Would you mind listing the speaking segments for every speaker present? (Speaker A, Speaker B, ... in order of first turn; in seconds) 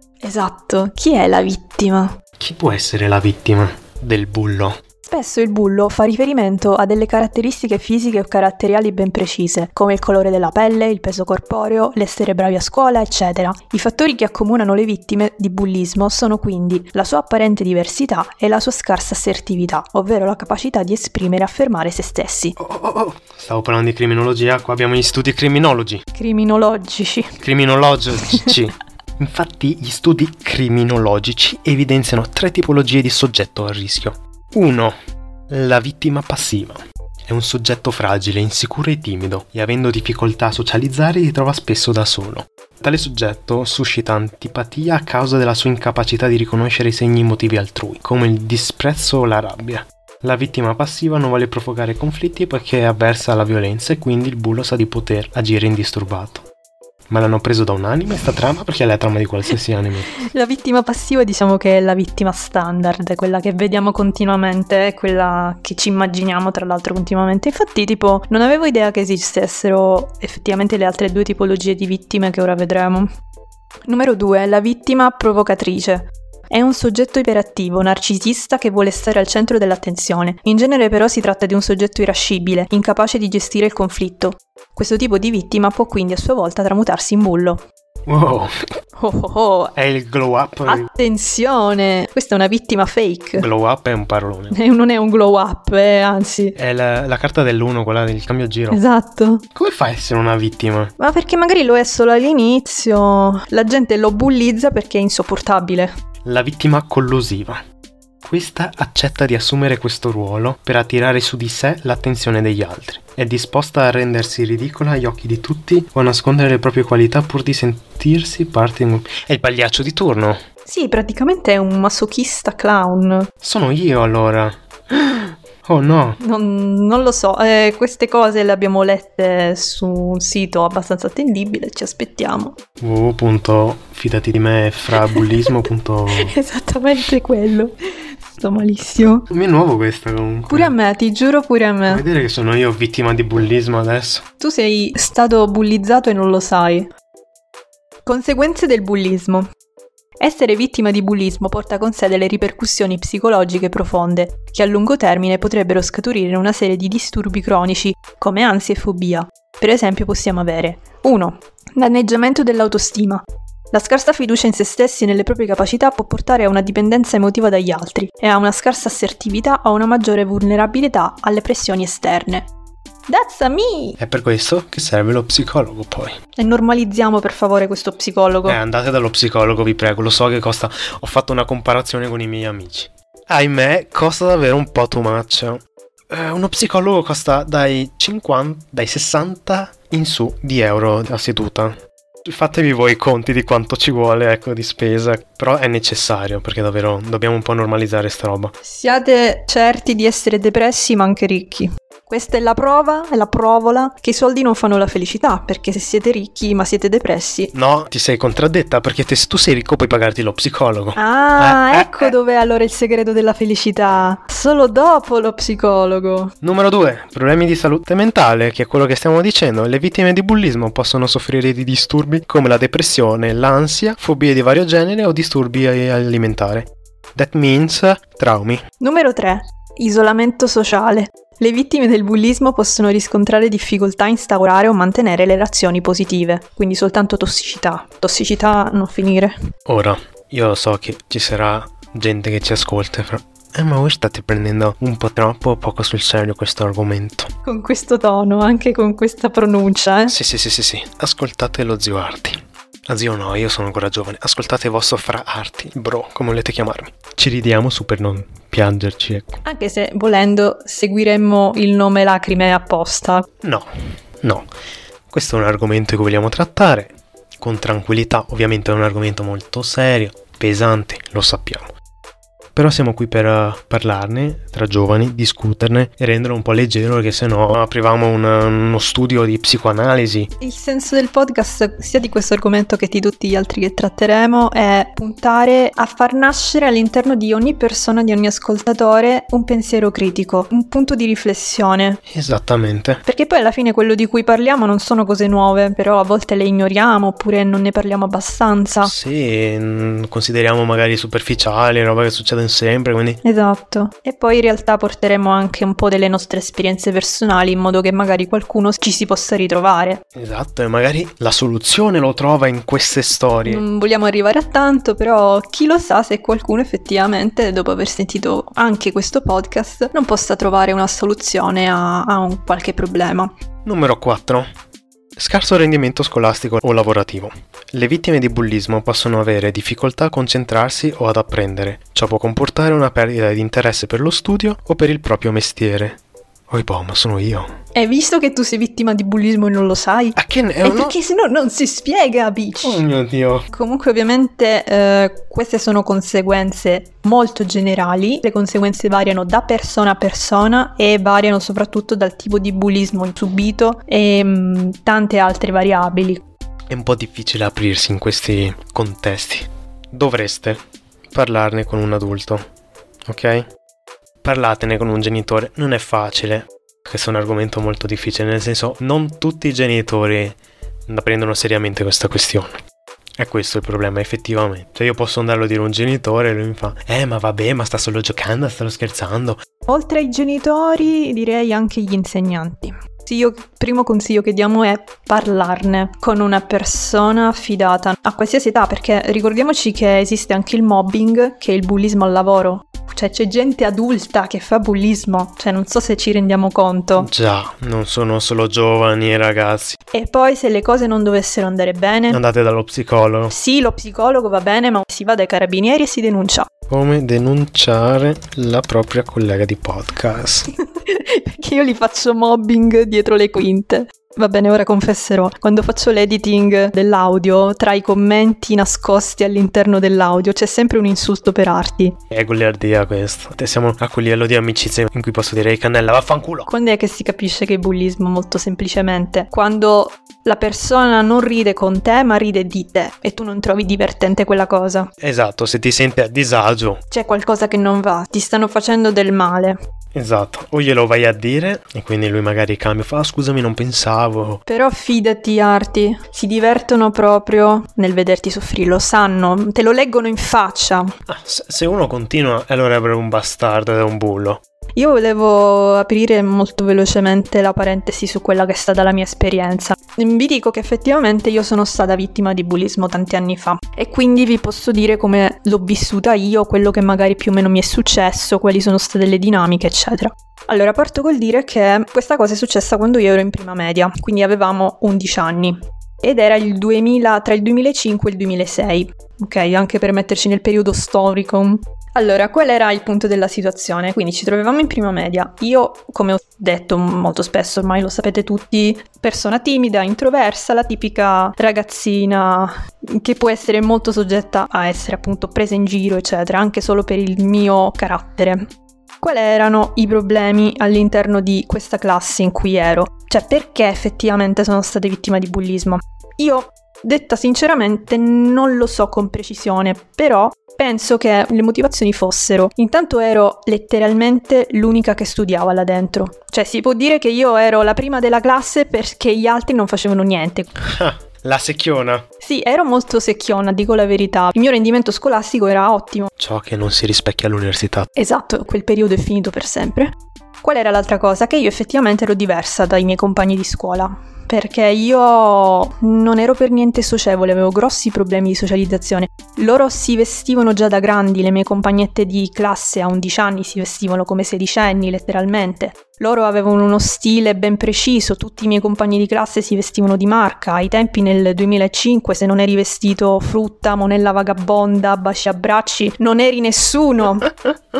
Speaker A: 0.2-2.2, 5.1-22.6, 26.1-27.4, 60.1-73.1, 73.9-87.6, 89.0-89.7, 90.7-93.5, 94.5-96.6, 98.7-99.4, 101.0-106.0, 120.7-123.3, 126.2-132.6, 135.0-135.5, 136.1-139.3, 140.5-142.0, 144.4-146.9, 148.1-149.5, 150.2-172.5, 173.1-174.0, 176.4-178.6, 198.6-207.5, 210.9-216.3, 228.8-239.3, 247.4-250.1, 259.4-263.3, 280.4-292.0, 293.1-298.9, 303.2-310.0, 313.4-323.3, 337.8-342.8, 343.5-356.2, 379.7-397.1, 399.9-402.2, 403.3-406.5, 410.8-421.9, 426.5-434.9, 436.9-439.6, 444.5-450.9, 454.8-520.5, 522.2-526.1, 527.9-557.3
Speaker B: 2.4-4.8, 22.6-26.1, 27.4-34.9, 35.5-56.5, 57.1-60.2, 88.1-88.5, 89.8-90.9, 93.4-94.6, 96.6-98.8, 99.5-100.9, 106.2-107.6, 108.2-120.4, 123.4-126.2, 132.8-136.3, 139.3-140.7, 141.9-144.2, 174.0-176.2, 178.4-198.6, 207.5-212.1, 216.4-228.6, 239.7-247.3, 250.1-259.4, 263.4-264.5, 265.1-271.7, 272.6-280.3, 292.1-293.0, 298.8-303.2, 310.1-313.6, 323.6-324.5, 325.2-337.5, 340.2-340.9, 342.6-343.4, 356.7-362.4, 363.1-363.4, 364.2-372.6, 373.2-379.4, 397.0-399.8, 402.1-403.3, 406.7-410.5, 422.1-426.5, 435.0-436.8, 439.9-444.4, 451.1-454.4, 520.6-522.0, 526.2-527.9